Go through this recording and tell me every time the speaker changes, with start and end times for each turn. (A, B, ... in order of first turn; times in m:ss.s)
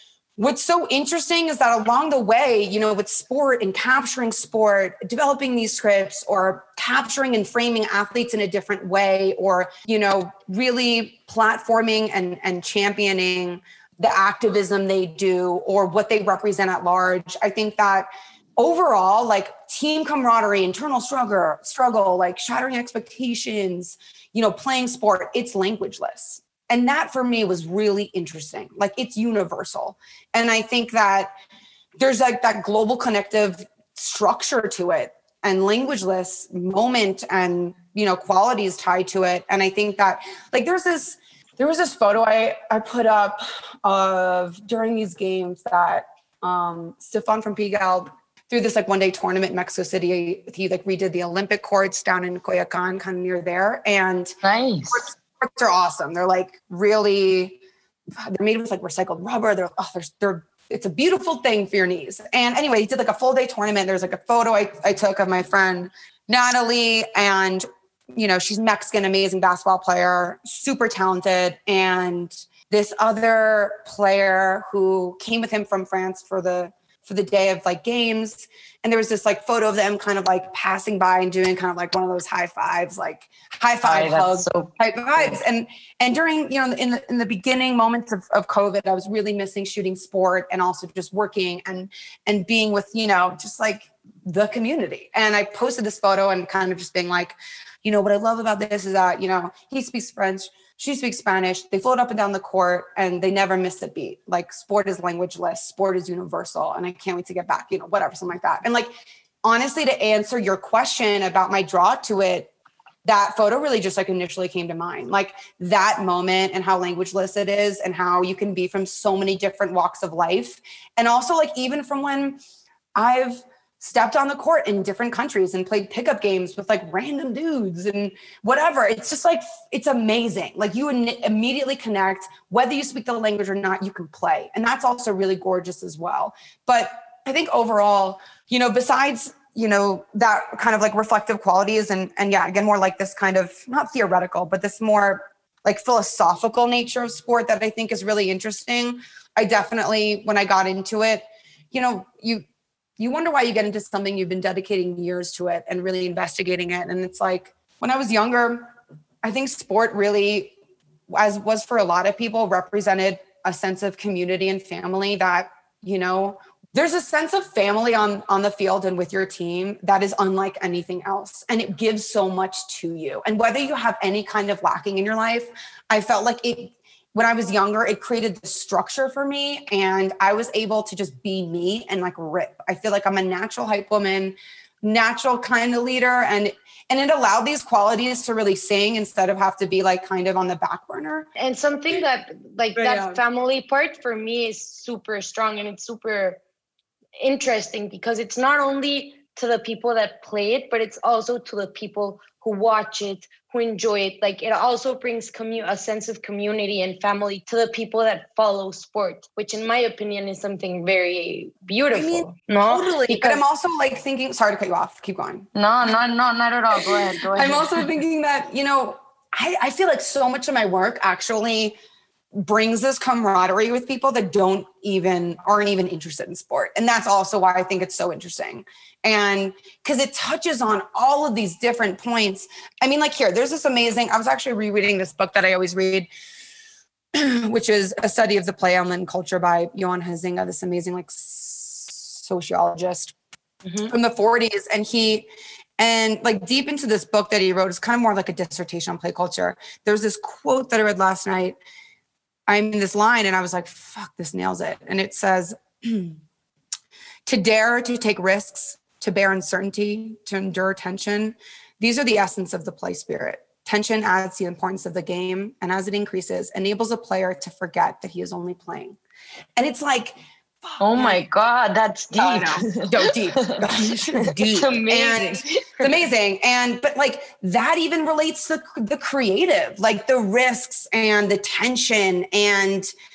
0:00.4-0:31.3 A
0:32.0-0:54.3 A
0:54.4-0:55.1 B
0:54.9-0:57.6 A
0:58.2-1:48.9 A
1:23.8-1:25.4 B
1:49.4-1:52.5 A
1:53.0-2:02.4 A
2:03.0-2:32.4 A
2:33.0-2:38.7 A
2:39.2-2:40.5 A
2:41.1-3:11.3 A
3:11.4-3:16.4 B
3:12.8-3:13.2 A
3:17.2-3:33.4 B
3:31.9-3:35.5 A
3:35.5-3:37.9 B
3:36.8-3:41.8 A
3:42.4-3:56.1 A
3:57.1-4:03.1 A
4:03.6-4:03.9 B
4:03.9-4:11.6 A
4:12.5-4:16.2 A
4:17.2-4:29.0 A
4:29.6-4:31.2 A
4:30.8-4:36.0 B
4:32.1-4:42.9 A